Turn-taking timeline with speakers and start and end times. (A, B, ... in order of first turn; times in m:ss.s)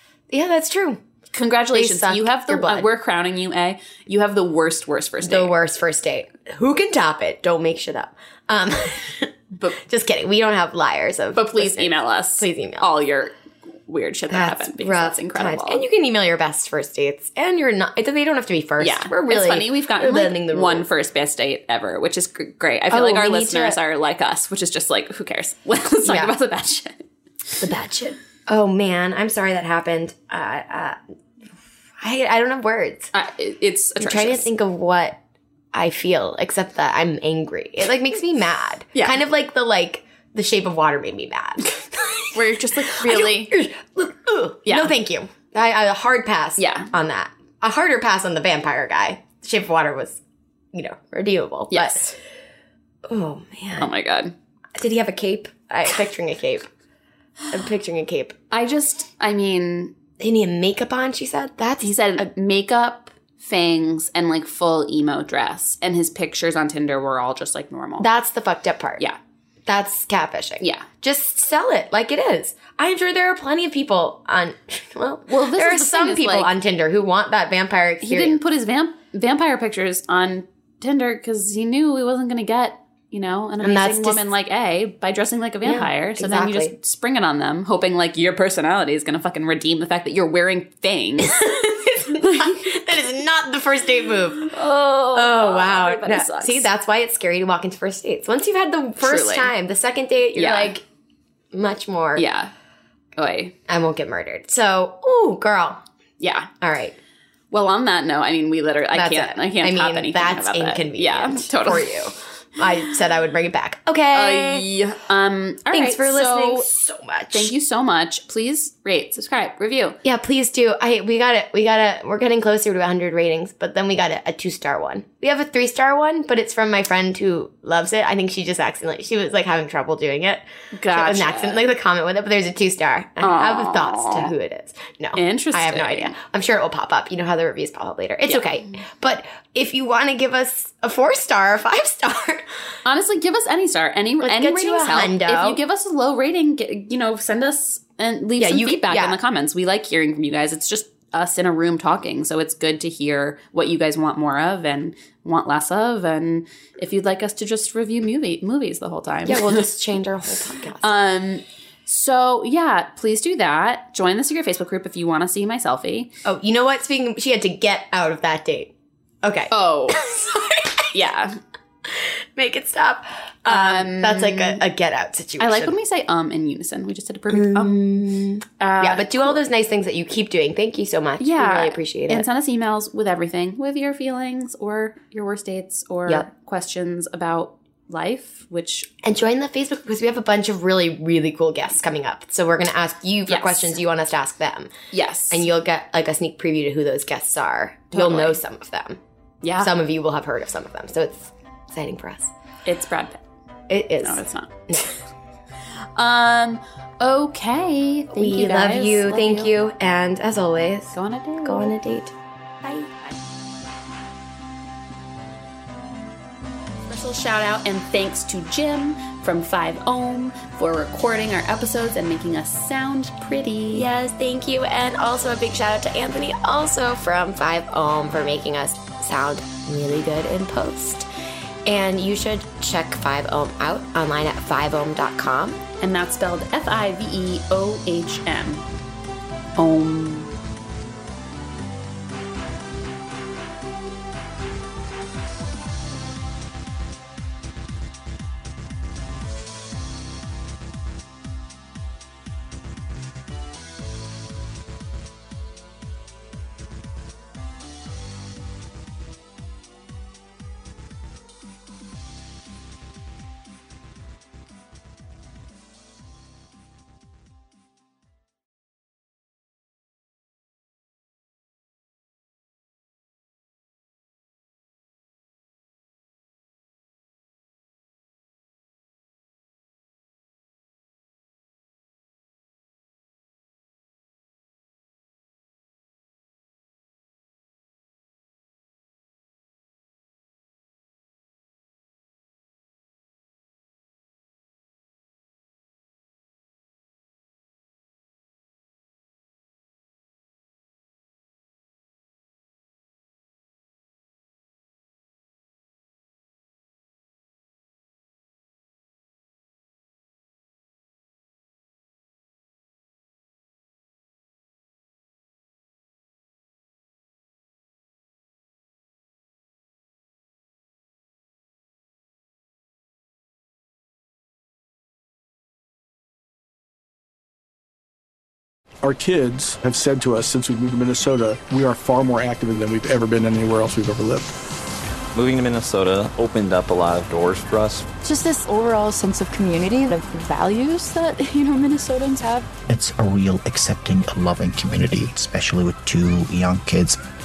0:00.3-0:01.0 A
0:01.3-0:05.6 B
0:01.7-0:02.9 A
0:05.2-0:12.9 A
0:09.5-0:09.8 B
0:11.3-0:13.4 B
0:13.9-0:15.8 B
0:14.3-0:20.9 A
0:18.8-0:27.0 B
0:22.9-0:23.8 A
0:26.0-0:26.3 A
0:27.6-0:31.0 A
0:32.0-0:33.1 A
0:33.1-0:34.5 B
0:34.0-0:35.2 A
0:35.7-0:50.2 A
0:38.9-0:39.2 B
0:42.3-0:43.5 B
0:44.7-0:44.9 B
0:46.6-0:46.9 B
0:50.7-0:52.1 A
0:51.7-0:52.2 B
0:53.1-0:53.9 A
0:53.8-0:54.3 B
0:54.8-0:56.7 A
0:57.5-0:58.4 A
0:58.5-0:59.9 B
1:00.2-1:02.3 A
1:01.8-1:08.1 B
1:08.0-1:09.0 A
1:09.7-1:18.4 A
1:10.6-1:10.9 B
1:15.3-1:16.5 B
1:18.0-1:31.4 B
1:23.6-1:24.2 A
1:25.6-1:26.7 A
1:31.2-1:34.5 A
1:32.2-1:32.6 B
1:34.4-1:36.7 B
1:35.1-1:40.8 A
1:39.0-1:39.5 B
1:40.4-1:40.7 B
1:41.5-1:42.3 A
1:42.2-1:42.5 B
1:43.2-1:43.5 B
1:43.7-1:45.8 A
1:46.2-1:46.5 B
1:46.6-1:47.0 A
1:47.5-1:52.0 B
1:48.9-1:54.7 A
1:54.1-1:56.7 B
1:55.7-1:57.5 A
1:57.3-2:00.0 B
2:00.0-2:22.5 A
2:10.8-2:11.6 B
2:13.2-2:14.3 B
2:15.2-2:16.2 B
2:22.8-2:39.7 B
2:24.2-2:25.6 A
2:28.4-2:29.2 A
2:39.3-2:40.9 A
2:40.8-2:46.1 B
2:46.2-2:48.7 A
2:49.2-2:51.0 A
2:49.5-2:50.0 B
2:50.9-2:51.4 B
2:51.9-2:55.8 A
2:53.5-2:54.6 B
2:55.4-2:57.9 B
2:57.3-3:02.3 A
2:58.6-2:59.4 B
3:01.2-3:08.9 B
3:09.0-3:14.7 A
3:13.3-3:13.8 B
3:14.9-3:15.5 B
3:15.3-3:19.0 A
3:17.9-3:18.4 B
3:19.4-3:19.7 B
3:19.6-3:22.3 A
3:22.6-3:23.2 B
3:23.7-3:24.9 A
3:24.0-3:24.5 B
3:26.0-3:29.6 B
3:28.1-3:32.1 A
3:30.9-3:31.7 B
3:36.9-3:43.9 B
3:43.7-3:51.1 A
3:51.6-3:55.6 A
3:55.8-3:58.6 B
3:59.6-4:00.3 B
5:28.8-5:34.4 C
5:35.1-5:37.9 D
5:38.0-5:42.5 E
5:42.7-5:47.0 F